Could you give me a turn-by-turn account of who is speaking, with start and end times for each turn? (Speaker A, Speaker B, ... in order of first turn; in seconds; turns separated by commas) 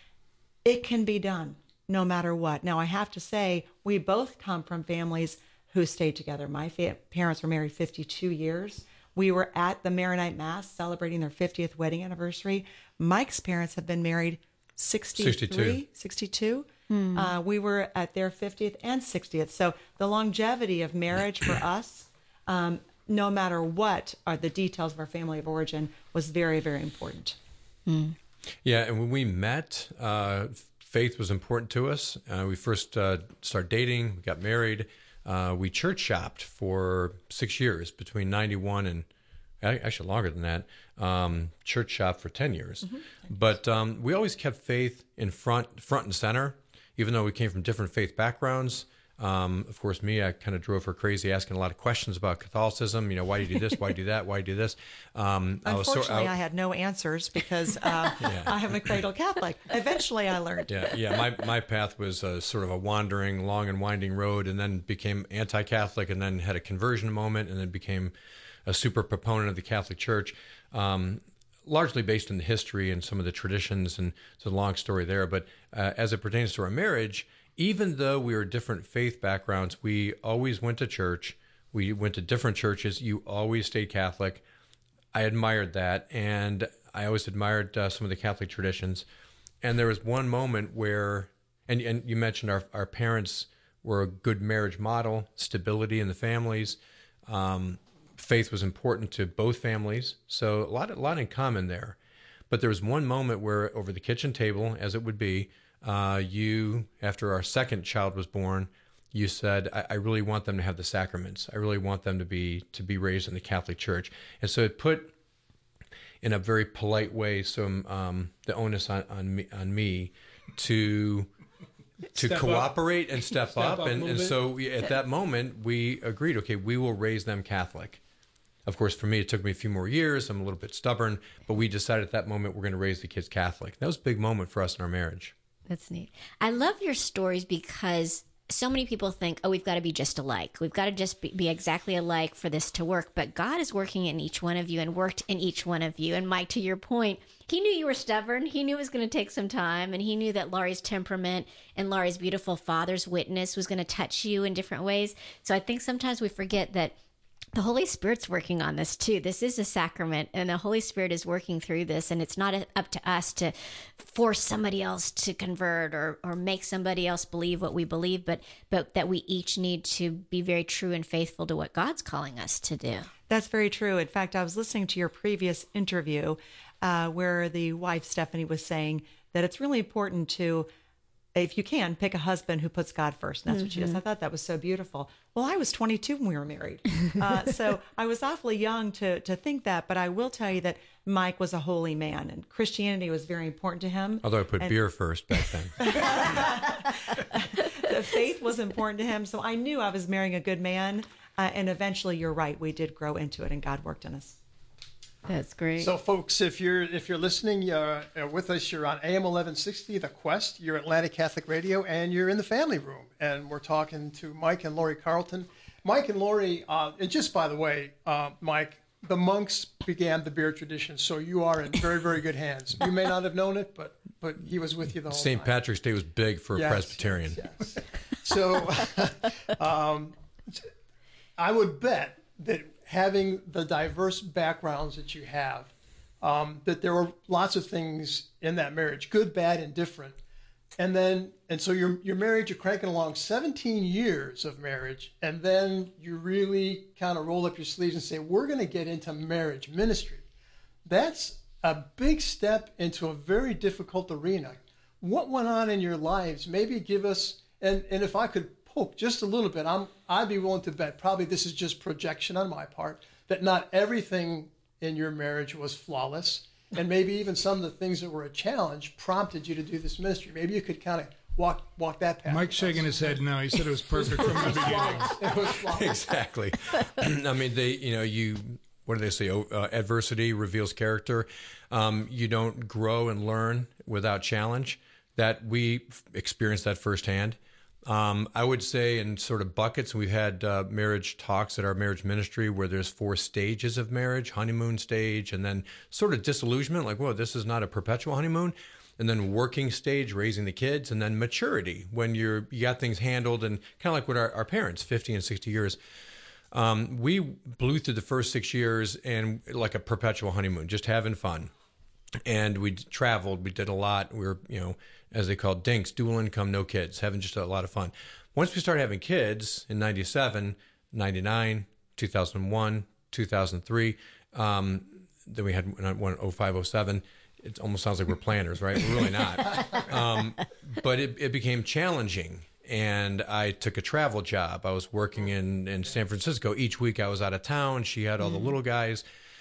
Speaker A: 0.6-27.4, Speaker B: 15.2-15.8, Speaker C: 16.9-17.3, Speaker C: 27.9-28.1, Speaker B: 28.6-39.1, Speaker B: 39.6-56.3, Speaker A: 55.6-60.9, Speaker B: 58.2-58.5, Speaker B: 60.7-68.1, Speaker B: 68.7-84.4, Speaker B: 85.1-89.0, Speaker B: 89.6-102.0, Speaker B: 102.5-115.1, Speaker B: 116.2-121.3, Speaker D: 122.1-124.4, Speaker B: 122.1-128.0, Speaker B: 128.7-135.3, Speaker C: 135.7-156.9, Speaker C: 157.5-173.1, Speaker A: 173.3-180.7, Speaker A: 181.3-194.8, Speaker C: 183.5-184.0, Speaker B: 194.2-196.3, Speaker A: 195.8-204.4, Speaker C: 205.3-205.9, Speaker E: 205.8-225.5, Speaker B: 225.1-227.5, Speaker E: 226.5-230.7, Speaker E: 231.4-235.7, Speaker E: 236.2-240.2, Speaker E: 240.8-250.2, Speaker E: 250.8-273.2, Speaker D: 272.2-275.2, Speaker E: 273.9-276.0, Speaker B: 275.7-305.8, Speaker B: 306.5-311.5, Speaker B: 312.2-339.0